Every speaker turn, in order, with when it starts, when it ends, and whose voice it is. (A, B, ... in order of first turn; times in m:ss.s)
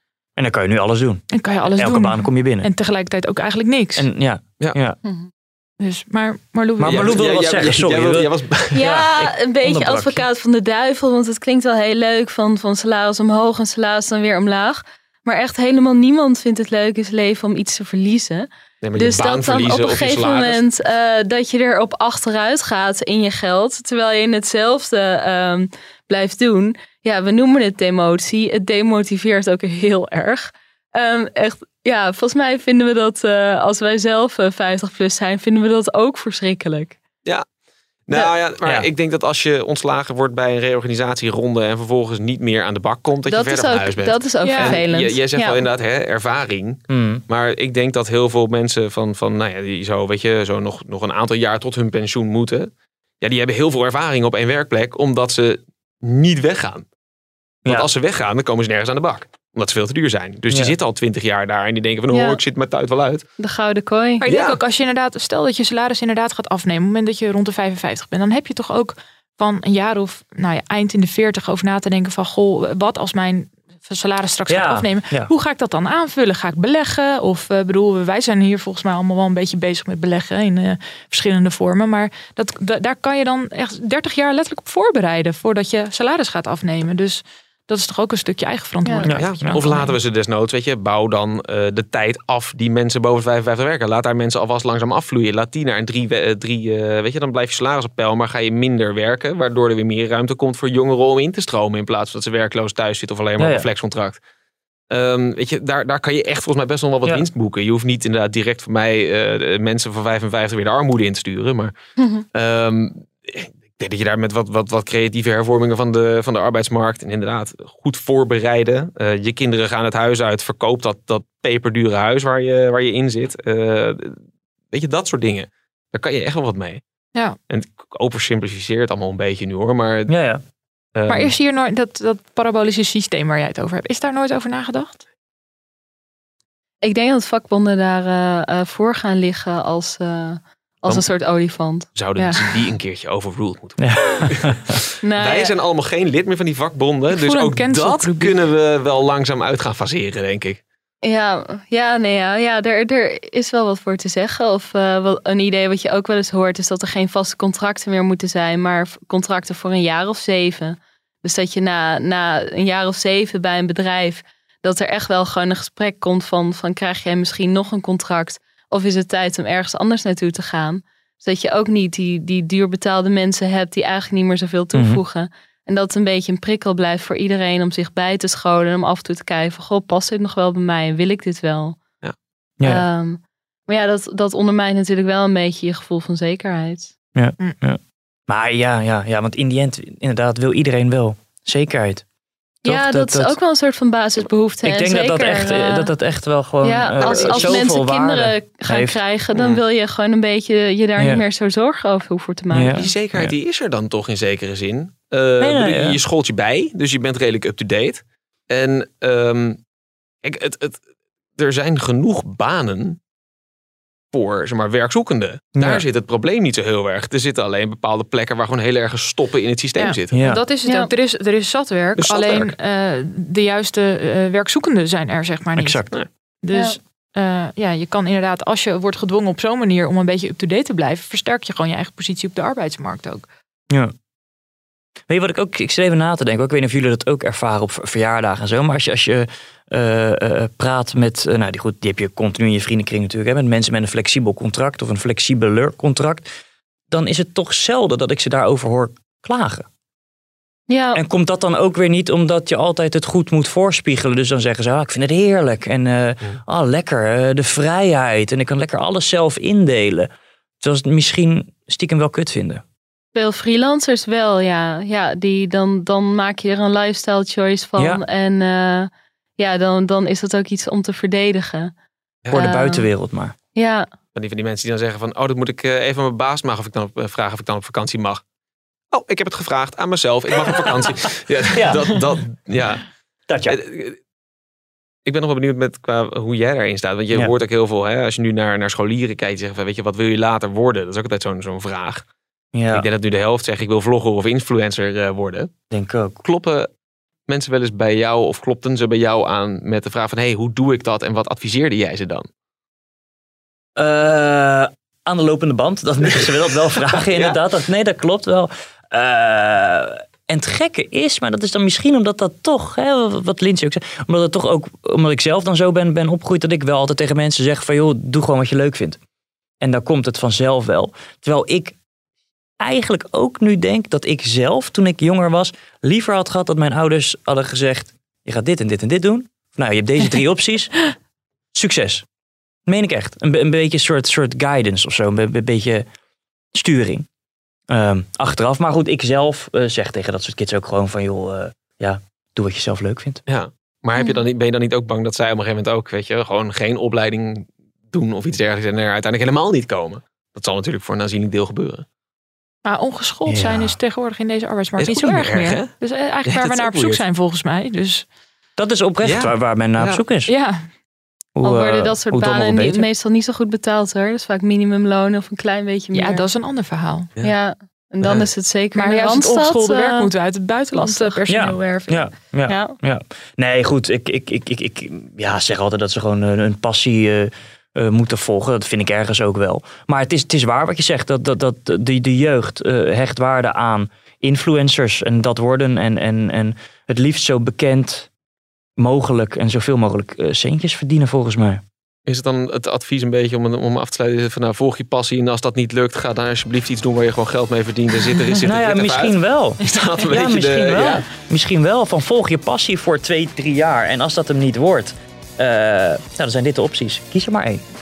0:00.4-0:02.7 A
0:01.3-0:04.1 B
0:04.0-0:05.0 A
0:05.0-0:05.3 C
0:05.8-0:07.2 B
0:06.8-0:10.2 A
0:06.8-0:08.8 D
0:08.7-0:37.0 C
0:18.8-0:20.6 D
0:38.1-0:56.9 D
0:43.3-0:45.6 C
0:44.4-0:44.8 B
0:46.9-0:47.2 A
0:57.6-0:57.9 A
0:57.6-1:03.2 D
1:00.5-1:00.8 A
1:02.1-1:02.4 C
1:03.4-1:04.2 C
1:04.2-1:30.0 B
1:04.3-1:04.6 D
1:14.5-1:15.3 A
1:29.0-1:29.6 A
1:29.2-1:44.2 D
1:43.4-1:43.7 A
1:44.9-1:51.7 D
1:52.0-1:52.2 C
1:52.3-2:04.2 D
2:04.7-2:06.8 D
2:07.5-2:10.1 D
2:10.1-2:10.4 A
2:11.0-2:11.3 D
2:11.1-2:15.0 B
2:16.8-2:22.4 C
2:22.0-2:30.6 D
2:23.8-2:24.8 A
2:25.0-2:25.5 C
2:27.1-2:28.3 B
2:31.0-3:01.8 C
2:54.7-2:55.0 A
3:02.6-3:06.9 C
3:07.2-3:12.0 A
3:12.6-3:13.4 A
3:12.6-3:15.9 C
3:14.6-3:19.0 A
3:16.6-3:22.9 C
3:17.0-3:17.6 D
3:19.4-3:19.6 D
3:21.0-3:21.2 A
3:22.5-3:23.3 A
3:22.8-3:29.6 D
3:25.4-3:26.0 A
3:30.2-3:30.8 D
3:31.4-3:33.0 D
3:34.1-3:40.2 D
3:35.6-3:35.8 A
3:39.8-3:53.3 B
3:40.1-3:40.4 A
3:40.6-3:40.9 C
3:42.0-3:42.5 D
3:45.6-3:45.9 A
3:55.1-4:06.3 A
4:06.9-4:09.7 A
4:10.7-4:11.0 C
4:10.9-4:22.6 A
4:23.2-4:31.7 C
4:32.3-4:33.4 A
4:32.3-4:32.9 C
4:33.6-4:33.9 C
4:34.2-4:38.2 D
4:38.9-4:42.9 D
4:40.4-4:42.1 A
4:43.3-4:43.6 A
4:43.5-4:44.0 D
4:45.1-4:52.0 D
4:52.5-4:52.9 A
4:52.7-4:55.5 D
4:55.7-4:56.2 A
4:56.2-4:56.7 D
4:57.3-5:02.3 D
5:03.8-5:19.0 A
5:07.1-5:07.4 D
5:19.6-5:21.8 A
5:22.6-5:30.9 A
5:31.5-5:32.0 A
5:32.7-5:35.8 A
5:36.5-5:37.1 A
5:37.7-5:43.2 A
5:43.3-5:51.8 D
5:52.6-5:58.0 B
5:53.3-5:53.8 A
5:54.8-5:55.7 D
5:56.2-5:57.0 D
5:58.6-6:00.3 A
5:59.0-6:00.0 D
6:00.3-6:00.7 B
6:01.4-6:02.8 A
6:01.4-6:06.3 C
6:05.9-6:07.1 B
6:07.2-6:10.1 C
6:08.0-6:08.3 D
6:08.7-6:12.0 B
6:10.7-6:12.8 C
6:11.3-6:28.1 A
6:28.8-6:31.6 A
6:32.1-6:41.0 D
6:38.4-6:47.6 A